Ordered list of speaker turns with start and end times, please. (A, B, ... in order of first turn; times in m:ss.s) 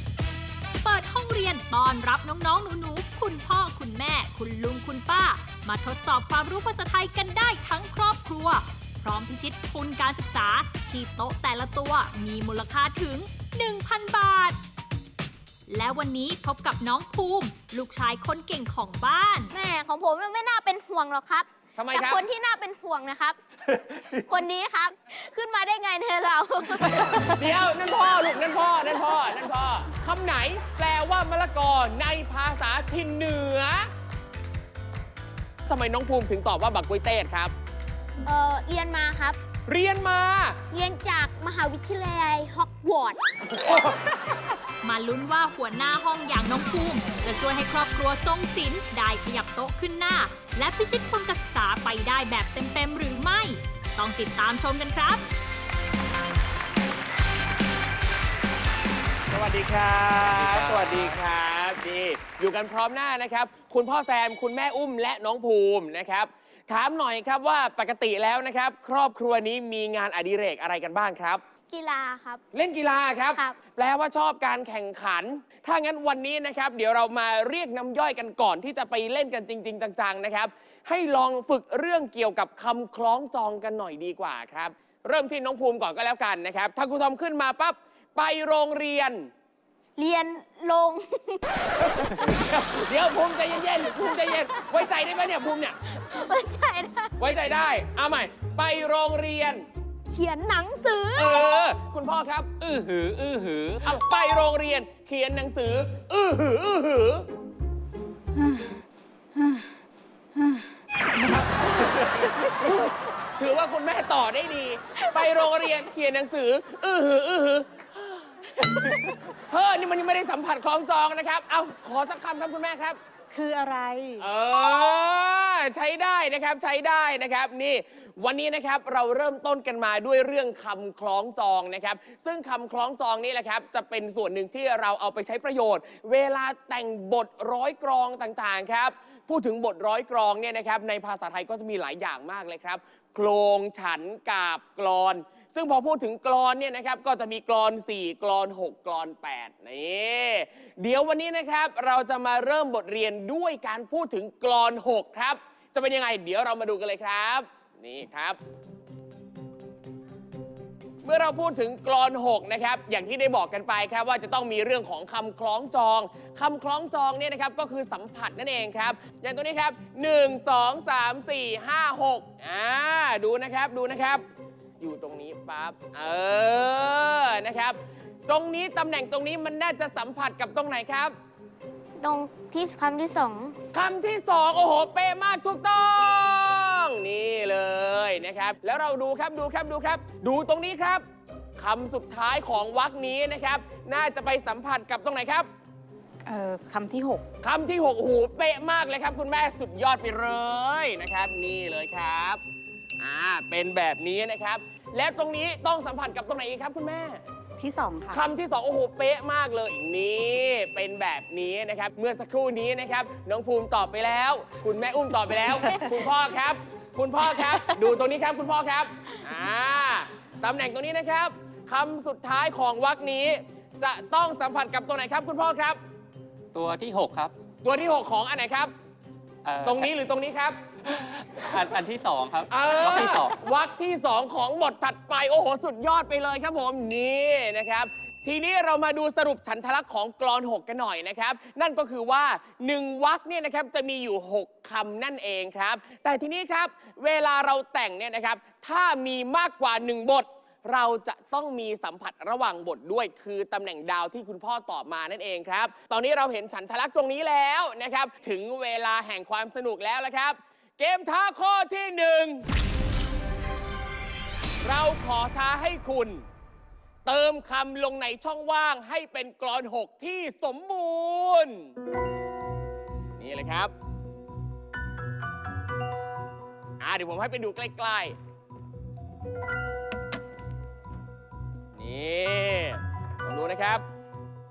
0:00.8-0:14.6 A
0:15.7-0:19.6 A
0:19.5-0:23.4 B
0:21.8-0:22.3 C
0:24.1-0:27.4 B
0:27.3-0:33.9 C
0:35.7-0:37.5 C
0:38.2-0:39.4 B
0:39.7-0:40.6 C
0:40.7-0:43.2 B
0:44.8-0:55.2 A
0:59.3-1:11.4 C
1:00.2-1:01.2 D
1:11.7-1:12.4 B
1:12.5-1:29.3 C
1:13.3-1:13.6 B
1:30.0-1:32.3 B
1:32.0-1:35.8 C
1:36.0-1:37.3 B
1:37.2-1:39.7 C
1:40.1-1:41.5 B
1:41.2-1:42.6 C
1:42.6-1:43.8 D
1:43.8-1:47.3 C
1:48.4-1:48.7 E
1:49.4-1:49.6 E
1:50.4-1:50.6 E
1:51.2-1:51.4 E
1:52.6-1:57.7 C
1:59.5-2:03.0 C
2:03.3-2:04.2 E
2:04.2-2:38.4 C
2:41.0-2:54.2 C
2:54.8-3:01.2 C
3:02.0-3:03.6 B
3:03.7-3:11.0 C
3:11.6-3:15.5 C
3:16.2-3:17.3 E
3:17.4-3:22.4 C
3:23.0-3:27.2 C
3:27.6-3:28.2 E
3:28.1-3:45.8 C
3:46.5-3:47.4 D
3:47.6-3:48.7 C
3:49.4-3:49.9 D
3:49.6-3:50.6 C
3:51.4-3:53.3 D
3:52.5-4:22.5 C
4:24.6-4:26.2 C
4:27.1-4:31.7 C
4:33.2-4:33.7 C
4:36.8-4:38.2 C
4:41.8-4:43.8 C